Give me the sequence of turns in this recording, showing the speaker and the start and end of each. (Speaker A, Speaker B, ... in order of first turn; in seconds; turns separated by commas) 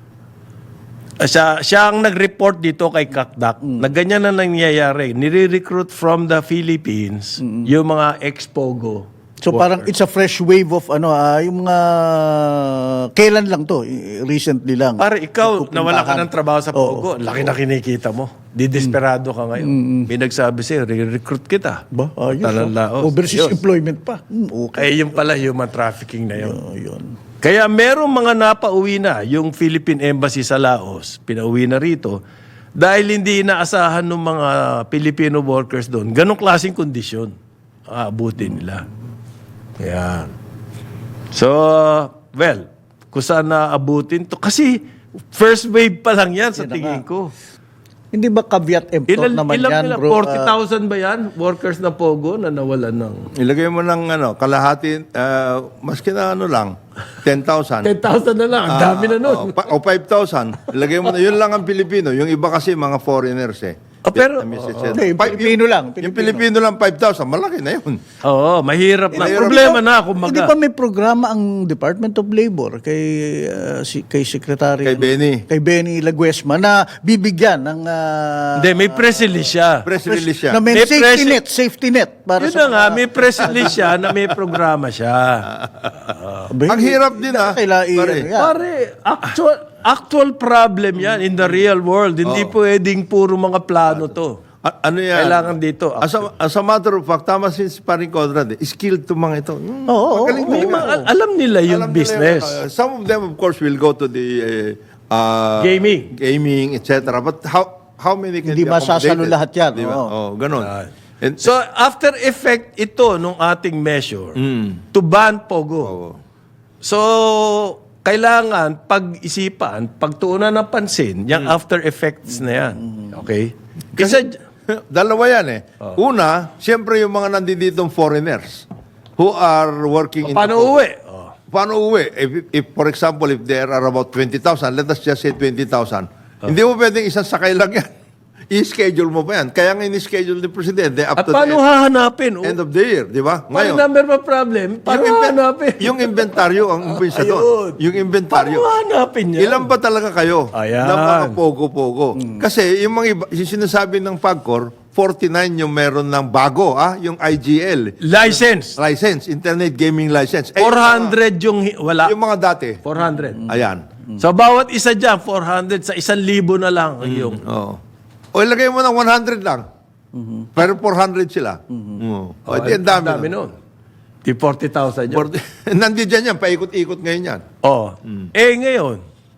Speaker A: 1.2-9.9, Speaker B: 7.4-7.7, Speaker B: 9.4-17.1, Speaker A: 15.0-21.8, Speaker B: 19.6-20.1, Speaker B: 21.9-24.9, Speaker A: 22.4-23.6, Speaker A: 24.8-26.6, Speaker B: 26.4-27.1, Speaker A: 27.4-32.2, Speaker A: 32.8-37.3, Speaker A: 37.9-38.9, Speaker A: 39.8-40.3, Speaker A: 41.3-44.8, Speaker A: 45.3-47.3, Speaker B: 46.6-47.0, Speaker B: 48.1-50.5, Speaker A: 49.1-53.3, Speaker C: 53.4-57.9, Speaker A: 57.8-59.7, Speaker C: 58.7-68.0, Speaker A: 64.0-65.0, Speaker B: 64.9-66.5, Speaker A: 68.2-70.5, Speaker B: 69.1-79.4, Speaker C: 69.1-69.8, Speaker C: 74.8-75.4, Speaker A: 78.6-79.9, Speaker C: 79.8-80.6, Speaker B: 80.0-83.9, Speaker A: 80.7-81.4, Speaker A: 82.4-86.5, Speaker B: 86.5-88.5, Speaker C: 86.7-88.3, Speaker A: 88.3-94.4, Speaker C: 92.2-92.5, Speaker C: 94.6-101.0, Speaker A: 95.2-96.3, Speaker B: 99.9-101.1, Speaker A: 100.5-102.6, Speaker C: 101.7-111.5, Speaker A: 105.6-106.1, Speaker B: 108.4-110.1, Speaker A: 110.6-114.4, Speaker C: 114.4-114.8, Speaker A: 114.9-116.0, Speaker C: 115.8-116.2, Speaker A: 116.8-124.4, Speaker C: 124.0-128.7, Speaker C: 129.2-130.8, Speaker A: 130.2-131.3, Speaker C: 131.5-137.9, Speaker C: 138.5-141.6, Speaker A: 141.2-142.6, Speaker C: 142.4-143.8, Speaker A: 143.5-149.7, Speaker C: 144.9-148.8, Speaker C: 149.4-161.2, Speaker A: 150.5-151.4, Speaker A: 158.0-158.8, Speaker A: 160.6-162.2, Speaker C: 162.0-162.8, Speaker A: 162.8-163.5, Speaker C: 163.4-163.8, Speaker A: 164.2-167.4, Speaker C: 167.0-167.8, Speaker C: 168.3-169.7, Speaker B: 170.1-170.5, Speaker C: 170.6-173.3, Speaker A: 172.5-173.5, Speaker A: 174.2-175.3, Speaker C: 175.1-177.4, Speaker A: 177.6-179.0